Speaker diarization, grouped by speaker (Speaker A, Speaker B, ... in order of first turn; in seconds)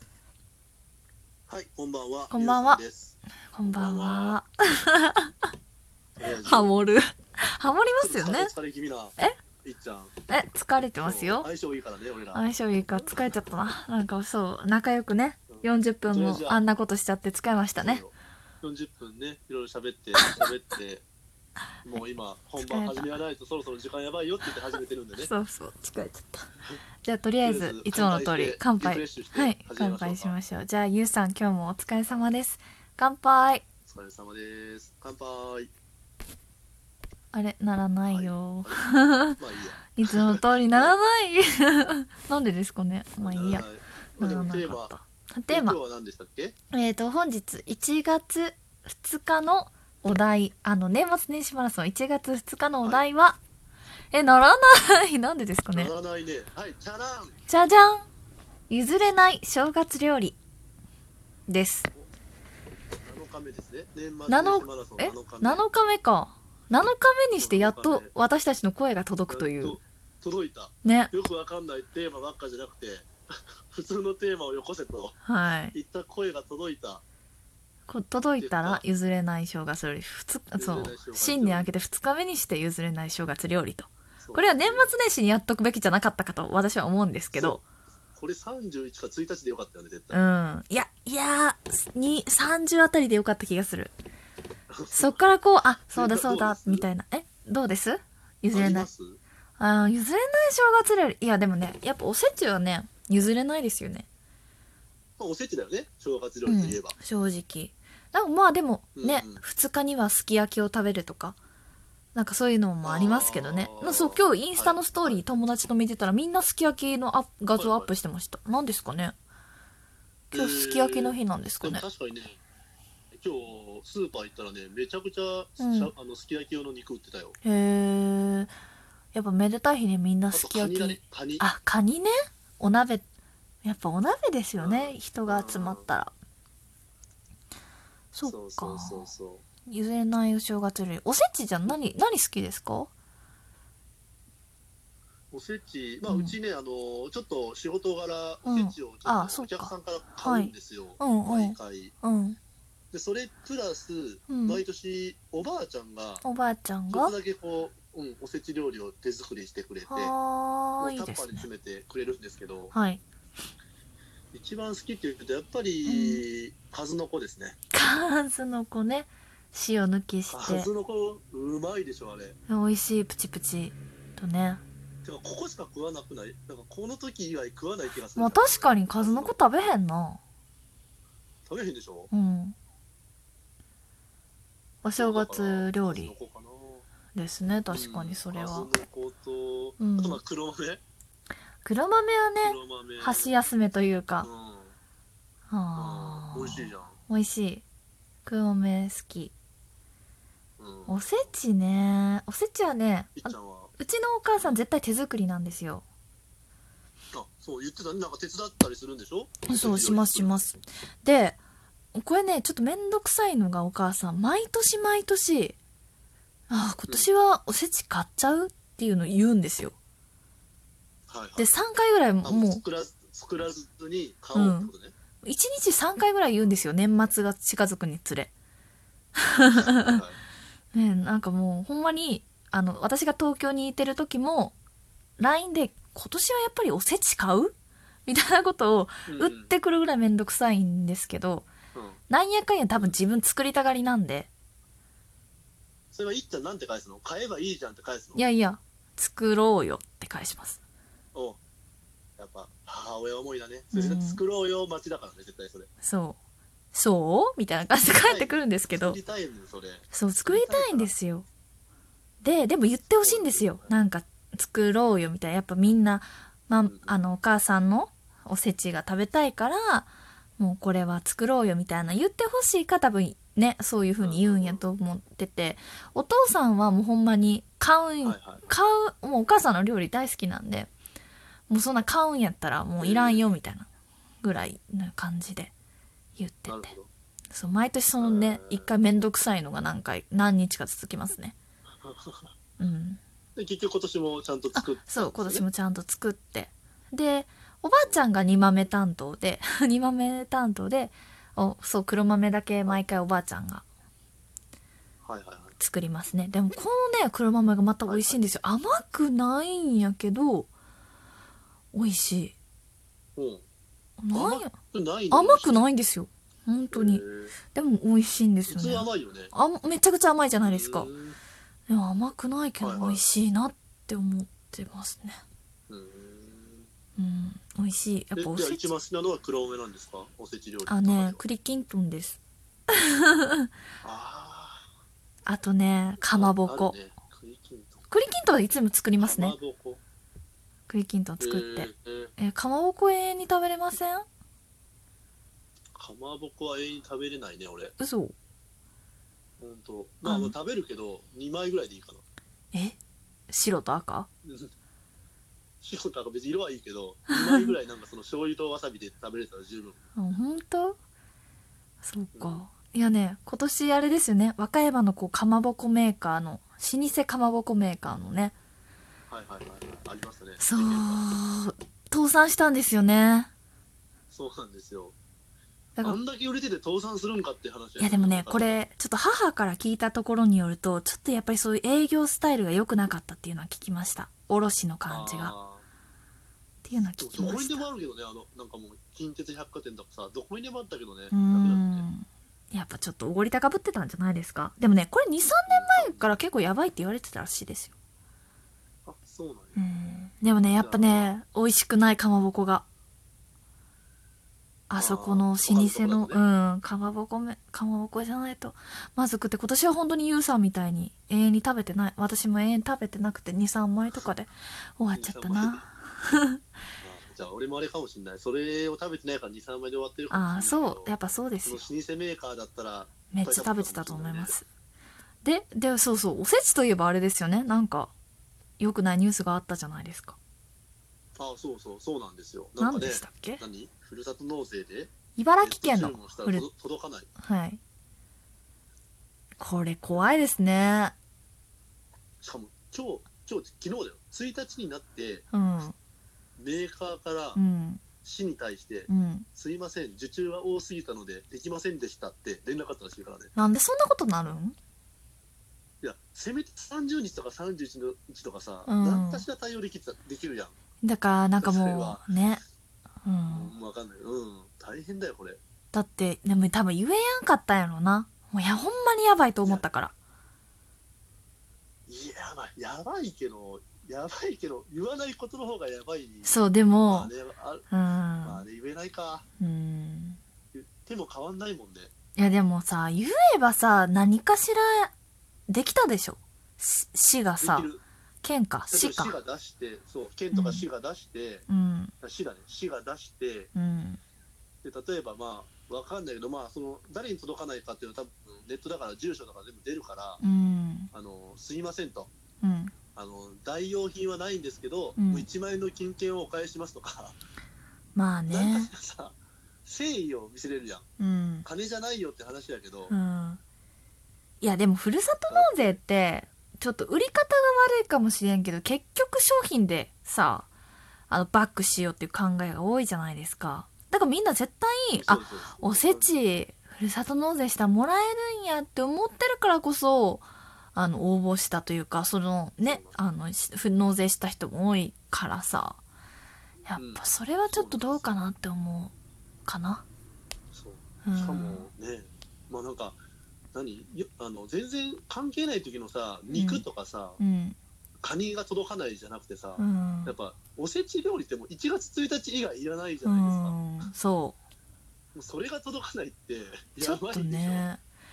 Speaker A: 1.5-4.4, 6.2-6.7, 8.0-10.1, 11.0-13.1, 15.5-16.6, 17.7-21.0, 21.8-25.3, 27.4-30.4, 33.9-35.7, 38.1-38.8, 39.4-41.0, 43.2-44.9, 45.5-46.5, 55.7-57.4, 63.0-65.6, 67.4-68.1, 69.3-75.2, 75.7-77.0, 78.4-78.8, 80.5-81.7, 84.2-84.9, 87.3-87.6, 88.2-90.2, 94.7-95.2, 95.9-96.9, 98.5-99.2, 105.2-107.0, 109.0-109.4, 112.8-115.2, 117.5-117.9, 120.3-122.4, 123.2-127.4, 130.3-131.5, 134.6-135.9, 138.2-139.4, 145.3-151.9, 152.9-156.2, 156.9-160.1, 160.8-162.7, 164.3-167.6, 170.3-172.4, 175.0-179.7, 181.4-182.1, 184.9-186.8, 187.7-190.8, 192.4-193.4, 194.2-194.7, 195.8-197.0, 200.6-201.2, 203.2-203.7, 207.1-210.5, 221.1-221.5, 222.2-224.9, 229.4-230.2, 239.1-239.5, 241.7-242.0, 245.9-248.2, 251.1-251.4, 252.2-255.7, 258.0-260.9, 263.0-263.7, 266.6-267.0, 274.0-274.6, 278.0-278.4, 282.8-283.2, 286.5-286.9, 288.0-288.7, 291.8-292.3, 293.4-295.4, 305.0-305.5, 307.9-308.3, 313.1-313.4, 314.1-315.7, 316.7-317.3, 318.5-319.3, 320.4-321.2, 322.6-323.0, 325.7-326.7, 328.1-331.2, 333.8-334.6, 336.1-337.8, 339.0-339.8, 341.2-342.1, 345.7-347.7, 349.4-352.0, 354.2-354.5, 355.6-359.8, 362.1-362.4, 369.1-371.2, 374.1-374.9, 375.8-378.6, 384.9-385.6, 387.0-391.9, 395.5-396.2, 398.9-399.6, 400.6-401.1, 404.8-406.2, 414.9-415.6, 416.8-424.4, 431.1-437.1, 442.2-445.3, 446.4-447.4, 448.0-453.3, 455.8-460.5, 461.4-462.1, 463.3-465.4, 471.9-477.6, 478.2-479.2, 480.5-481.9, 487.4-487.8, 488.7-491.5, 492.0-493.5, 494.6-500.2, 500.9-502.1, 502.9-507.2, 508.3-510.9, 511.4-512.9, 515.3-515.8, 524.9-526.2, 532.6-533.0, 536.7-538.1, 540.5-543.0, 543.5-547.2, 548.0-553.6, 555.1-557.6
Speaker B: 2.3-2.8, 3.5-5.5, 6.4-8.5, 10.3-11.5, 12.3-18.0, 20.1-20.5, 22.6-23.2, 25.2-26.5, 27.0-33.6, 37.3-39.4, 40.0-43.6, 44.2-45.8, 46.7-53.4, 54.1-55.9, 57.5-58.0, 58.7-60.4, 61.5-61.9, 64.3-69.8, 70.8-71.1, 75.2-75.7, 77.9-87.6, 90.1-93.9, 94.9-98.9, 99.6-104.0, 106.4-111.4, 112.1-119.1, 120.3-121.8, 125.6-125.9, 127.4-128.5, 129.1-133.0, 133.6-136.1, 138.1-139.1, 139.7-142.9, 146.1-146.3, 148.4-152.4, 154.3-154.6, 156.2-157.1, 159.9-161.4, 162.7-163.0, 165.8-166.2, 167.7-170.7, 172.5-174.6, 178.1-180.2, 182.1-182.6, 184.8-186.1, 187.1-188.7, 189.8-190.2, 191.6-194.3, 195.5-197.6, 198.2-199.3, 200.9-205.8, 209.5-211.4, 211.9-215.6, 216.5-219.7, 221.3-222.6, 224.3-228.3, 229.2-230.0, 230.7-234.6, 235.2-237.5, 238.1-241.5, 242.1-244.3, 248.1-250.6, 253.7-254.2, 255.8-256.2, 256.7-259.0, 259.9-261.2, 262.2-280.7, 281.5-283.7, 284.2-285.5, 286.1-286.7, 287.3-291.3, 292.6-293.0, 294.5-303.6, 305.6-310.5, 311.7-312.3, 314.0-314.6, 315.1-320.9, 321.7-325.2, 327.0-328.7, 330.7-332.2, 332.7-333.5, 335.2-336.8, 337.9-339.4, 340.7-344.1, 347.8-348.1, 350.0-350.3, 353.3-354.1, 357.1-357.6, 359.9-360.8, 361.8-368.3, 370.4-373.3, 377.8-385.3, 386.6-387.6, 391.1-397.7, 399.6-402.6, 404.7-416.4, 420.1-421.6, 423.1-424.4, 425.2-427.9, 428.6-430.1, 432.6-433.4, 435.1-436.5, 437.2-437.6, 439.4-440.9, 445.3-445.7, 447.3-447.8, 448.9-449.2, 453.3-454.6, 458.6-459.2, 460.8-462.4, 463.0-463.5, 465.7-469.9, 476.2-477.1, 477.7-478.4, 479.4-480.2, 482.1-484.9, 485.5-487.7, 488.2-489.1, 490.3-490.6, 491.5-491.9, 493.5-494.0, 500.2-500.9, 502.4-502.7, 505.0-505.3, 507.9-508.7, 511.0-511.5, 512.9-513.4, 514.4-520.5, 521.1-535.8, 536.7-538.9, 539.4-539.8, 541.0-541.7, 546.3-546.6, 547.2-547.5, 549.6-550.1, 553.0-554.4, 556.8-557.8